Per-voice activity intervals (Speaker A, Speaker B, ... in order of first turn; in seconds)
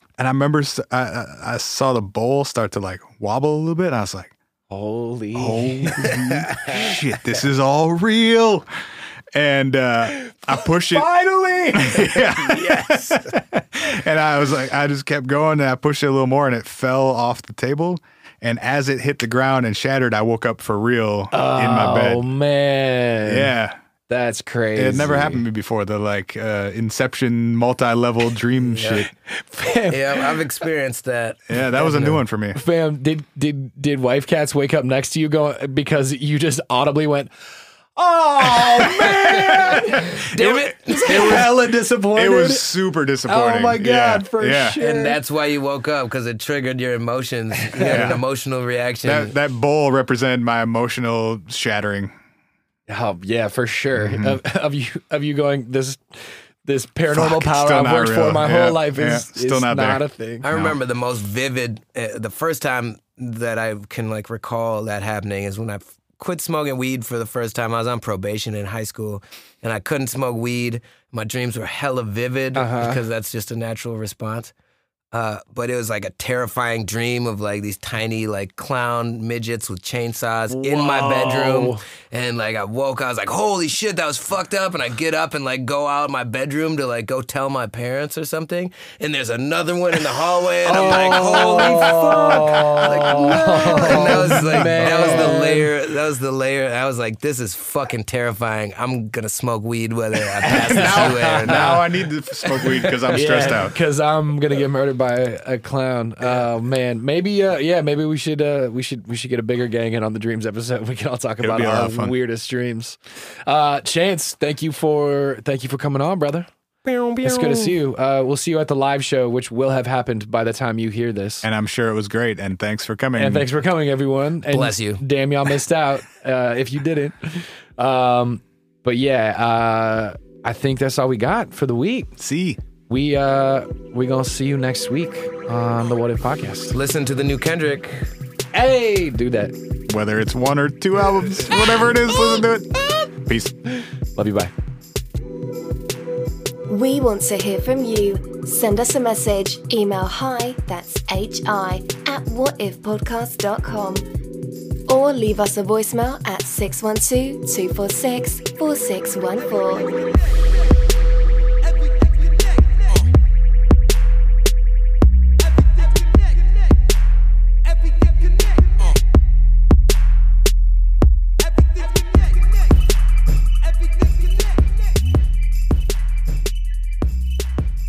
Speaker A: 0.2-4.3, 5.3-8.7, 9.3-11.1, 11.7-22.2, 23.2-23.8, 24.7-29.1, 31.5-32.6, 38.6-41.5, 42.1-44.8, 47.8-48.2, 49.0-52.1, 54.0-54.4, 57.1-60.8, 94.5-94.9, 100.6-103.8, 111.4-112.1, 121.4-123.5, 132.2-132.6, 139.9-143.6
Speaker B: 4.7-6.9, 10.1-13.3, 21.3-23.5, 24.1-25.4, 29.3-30.3, 32.5-37.3, 38.0-42.6, 43.3-45.2, 47.6-48.1, 52.9-60.5, 72.5-73.0, 80.5-81.8, 90.6-95.7, 100.4-101.8, 102.6-116.5, 117.2-121.5, 123.2-132.1, 132.9-136.8, 138.5-139.5, 144.1-144.5
Speaker C: 28.6-29.1, 29.9-32.2, 39.3-41.4, 44.8-49.3, 60.4-74.5, 75.1-101.8, 116.8-117.8, 124.5-125.0, 136.7-138.1, 162.0-162.8, 165.8-166.5, 167.7-168.9, 171.4-172.7, 173.6-174.7
Speaker D: 146.7-154.1, 154.9-160.0